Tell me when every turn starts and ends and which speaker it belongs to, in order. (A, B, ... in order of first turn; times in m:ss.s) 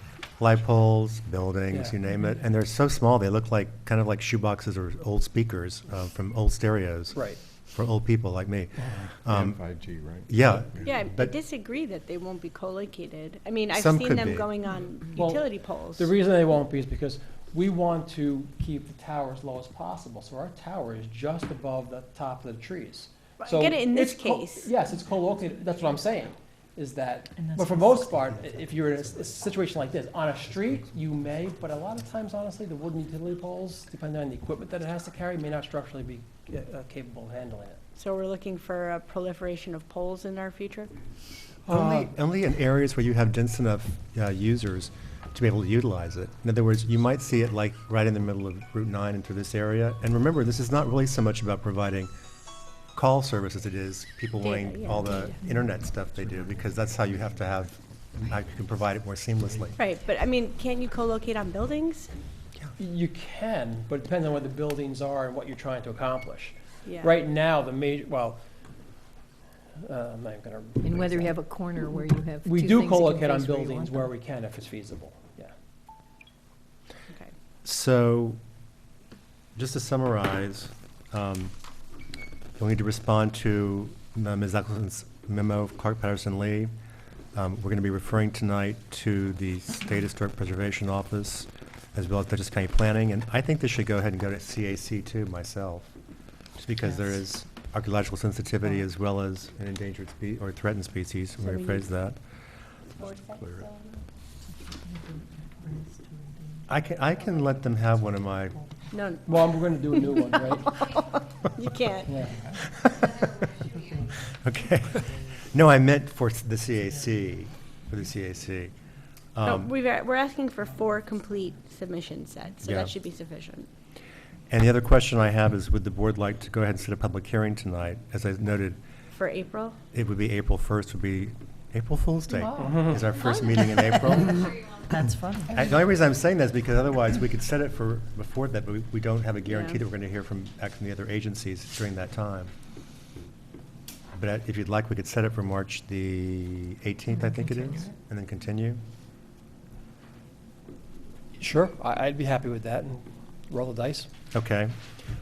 0:00.4-0:07.2 A
0:01.7-0:01.9 B
0:07.1-0:07.4 B
0:07.7-0:09.6 A
0:08.8-0:11.1 C
0:10.3-0:11.3 A
0:10.8-0:16.1 D
0:13.7-0:14.5 A
0:15.1-0:37.8 B
0:23.4-0:24.7 D
0:27.4-0:28.1 E
0:28.2-0:29.3 A
0:38.0-0:40.9 D
0:41.7-0:42.1 B
0:41.7-0:52.1 A
0:52.9-0:59.8 A
0:54.4-0:55.3 D
0:59.8-1:02.1 D
1:02.8-1:08.4 B
1:06.8-1:07.1 D
1:09.8-1:11.4 B
1:10.8-1:14.1 E
1:12.4-1:15.5 B
1:17.6-1:18.4 A
1:19.6-1:21.5 A
1:22.6-1:26.7 A
1:27.3-1:35.9 A
1:36.6-1:42.2 A
1:41.4-1:41.8 D
1:43.0-1:43.9 D
1:43.2-1:43.6 C
1:44.9-1:46.3 E
1:46.7-1:48.6 A
1:48.9-1:49.4 D
1:49.2-1:50.9 B
1:49.9-1:52.2 D
1:52.0-1:52.4 B
1:52.7-1:53.5 A
1:54.2-1:58.7 A
1:59.3-1:59.7 A
1:59.4-2:03.7 D
2:02.6-2:02.9 A
2:04.5-2:08.8 A
2:09.1-2:09.8 D
2:09.9-2:14.6 A
2:12.4-2:12.8 E
2:12.6-2:13.1 B
2:13.2-2:13.6 D
2:13.7-2:14.3 E
2:14.9-2:15.6 E
2:15.5-2:22.5 A
2:19.5-2:19.8 D
2:24.2-2:28.8 A
2:31.4-2:34.1 B
2:34.3-2:34.7 A